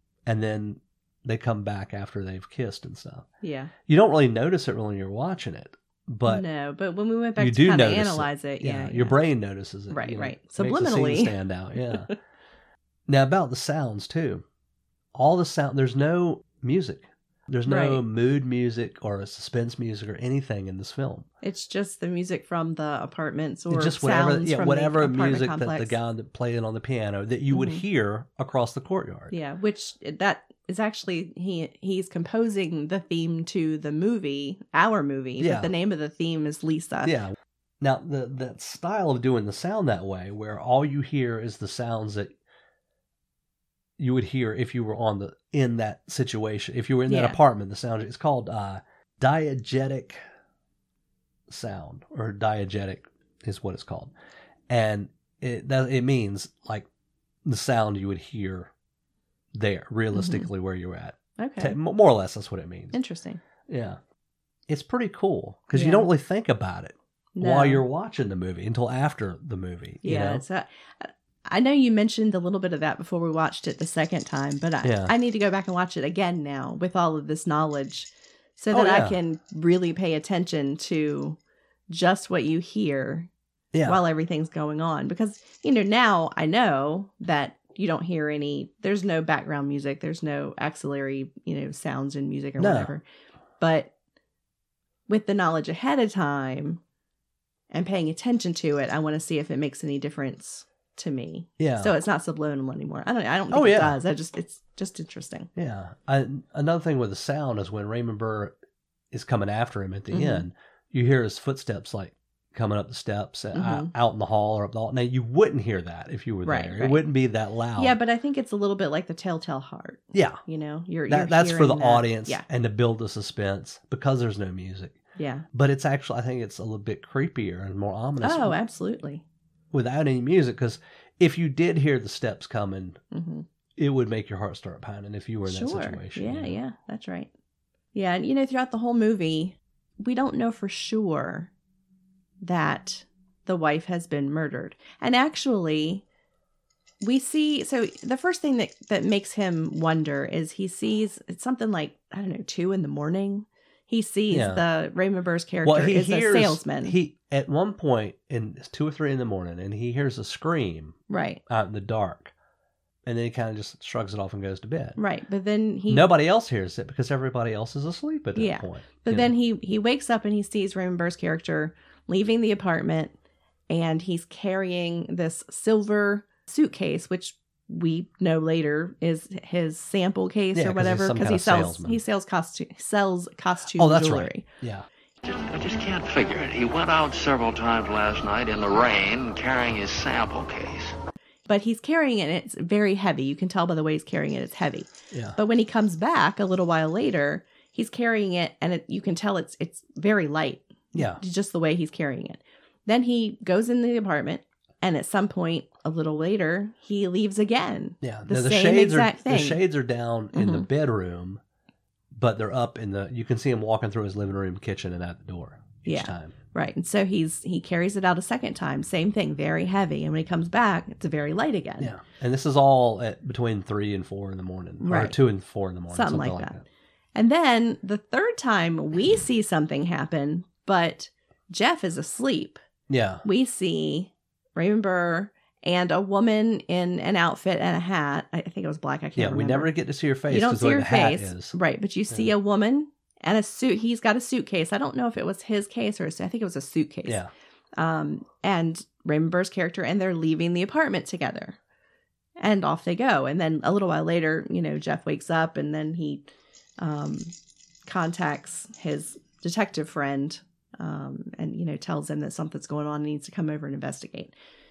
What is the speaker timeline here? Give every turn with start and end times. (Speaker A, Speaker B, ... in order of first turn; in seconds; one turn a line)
Speaker A: 0.3-3.3
Speaker B: 3.4-3.7
Speaker A: 3.9-6.5
Speaker B: 6.3-9.2
Speaker A: 7.4-12.1
Speaker B: 9.9-11.3
Speaker A: 13.1-14.4
Speaker A: 15.2-21.3
Speaker B: 17.7-18.0
Speaker B: 21.4-26.0
Speaker A: 23.7-29.3
Speaker B: 27.5-27.8
Speaker B: 29.3-37.2
Speaker A: 35.4-35.7
Speaker A: 37.0-42.4
Speaker A: 44.0-50.2
Speaker B: 47.1-47.4
Speaker A: 51.5-54.1
Speaker A: 54.7-56.9
Speaker A: 57.5-58.7
Speaker A: 59.5-63.0
Speaker B: 60.1-60.5
Speaker B: 61.4-61.8
Speaker B: 62.9-63.4
Speaker A: 63.7-64.0
Speaker A: 64.7-70.4
Speaker B: 65.7-66.1
Speaker B: 67.3-67.8
Speaker B: 70.0-83.3
Speaker A: 74.8-75.1
Speaker A: 78.7-79.2
Speaker A: 83.7-84.0
Speaker B: 83.8-93.0
Speaker A: 92.6-92.9
Speaker B: 93.6-93.9
Speaker B: 95.1-96.8
Speaker B: 97.7-105.5
Speaker A: 101.6-101.9
Speaker A: 103.5-104.0
Speaker A: 105.5-108.6
Speaker A: 109.1-118.0
Speaker B: 110.1-110.5
Speaker B: 113.5-113.9
Speaker B: 116.5-117.0
Speaker B: 117.8-122.4
Speaker A: 120.1-120.4
Speaker A: 121.1-125.0
Speaker B: 125.2-125.5
Speaker A: 125.5-128.6
Speaker B: 128.2-129.2
Speaker A: 129.7-133.0
Speaker B: 133.1-133.5
Speaker A: 133.8-136.6
Speaker B: 135.5-137.3
Speaker B: 137.9-141.5
Speaker B: 142.4-146.0
Speaker B: 147.0-157.0
Speaker A: 154.3-154.6
Speaker A: 155.6-162.3
Speaker B: 161.1-161.4
Speaker A: 163.1-165.0
Speaker B: 165.0-166.1
Speaker A: 165.9-169.3
Speaker B: 168.4-173.1
Speaker B: 173.7-184.4
Speaker A: 180.5-182.0
Speaker A: 183.7-184.9
Speaker C: 185.2-190.9
Speaker B: 191.5-209.6
Speaker A: 195.1-195.4
Speaker A: 200.9-201.2
Speaker A: 208.0-211.4
Speaker B: 210.3-210.7
Speaker A: 212.1-216.3
Speaker B: 215.9-221.9
Speaker A: 221.8-226.7
Speaker B: 224.8-225.2
Speaker B: 225.9-226.6
Speaker B: 227.2-232.6
Speaker A: 232.9-233.2
Speaker B: 233.2-239.7
Speaker A: 239.2-241.6
Speaker B: 240.3-247.2
Speaker B: 247.8-251.6
Speaker B: 252.4-257.3
Speaker B: 257.9-264.3